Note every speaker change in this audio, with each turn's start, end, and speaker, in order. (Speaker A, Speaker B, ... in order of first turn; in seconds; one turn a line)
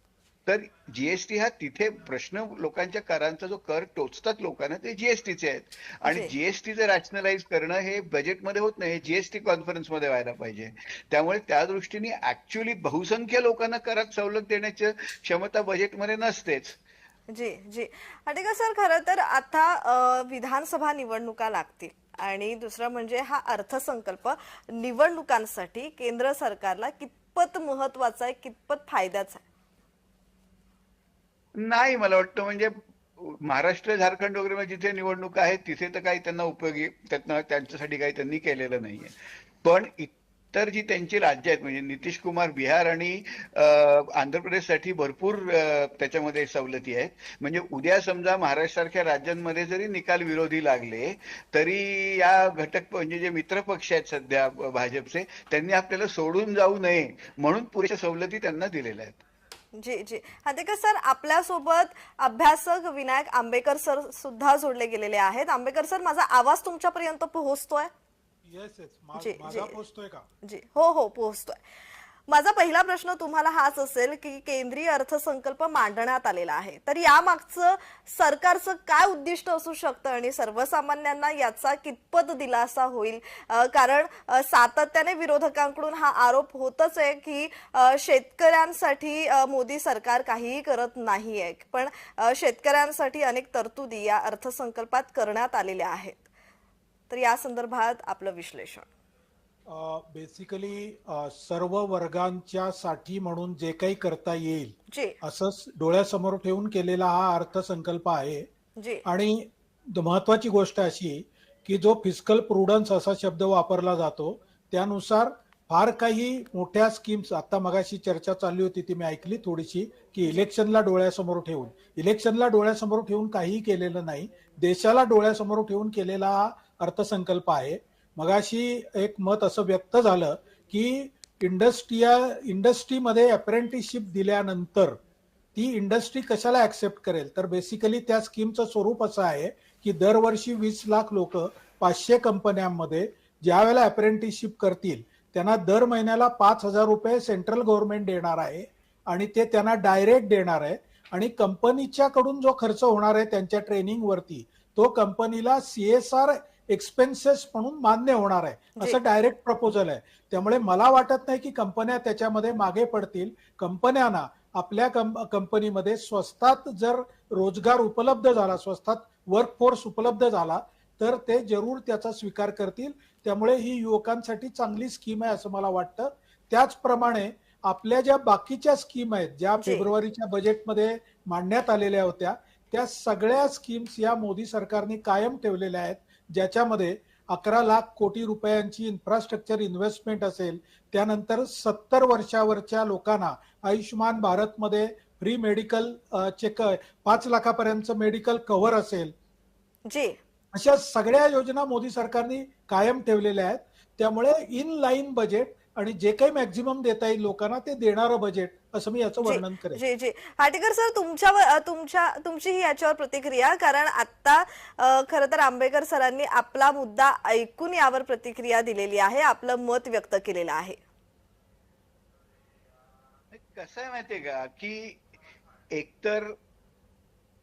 Speaker A: 0.5-16.8
Speaker B: 6.0-6.3
Speaker B: 17.3-29.4
Speaker A: 31.6-59.2
Speaker B: 59.8-67.9
Speaker C: 68.5-70.2
Speaker B: 69.1-69.8
Speaker B: 70.4-71.6
Speaker B: 72.3-96.2
Speaker B: 97.1-98.9
Speaker C: 99.7-108.5
Speaker B: 104.9-105.1
Speaker B: 108.8-109.0
Speaker C: 109.0-135.0
Speaker C: 135.5-199.1
Speaker B: 179.6-179.9
Speaker B: 199.9-200.2
Speaker C: 200.5-209.8
Speaker B: 209.2-220.8
Speaker A: 223.3-225.0
Speaker A: 225.7-226.3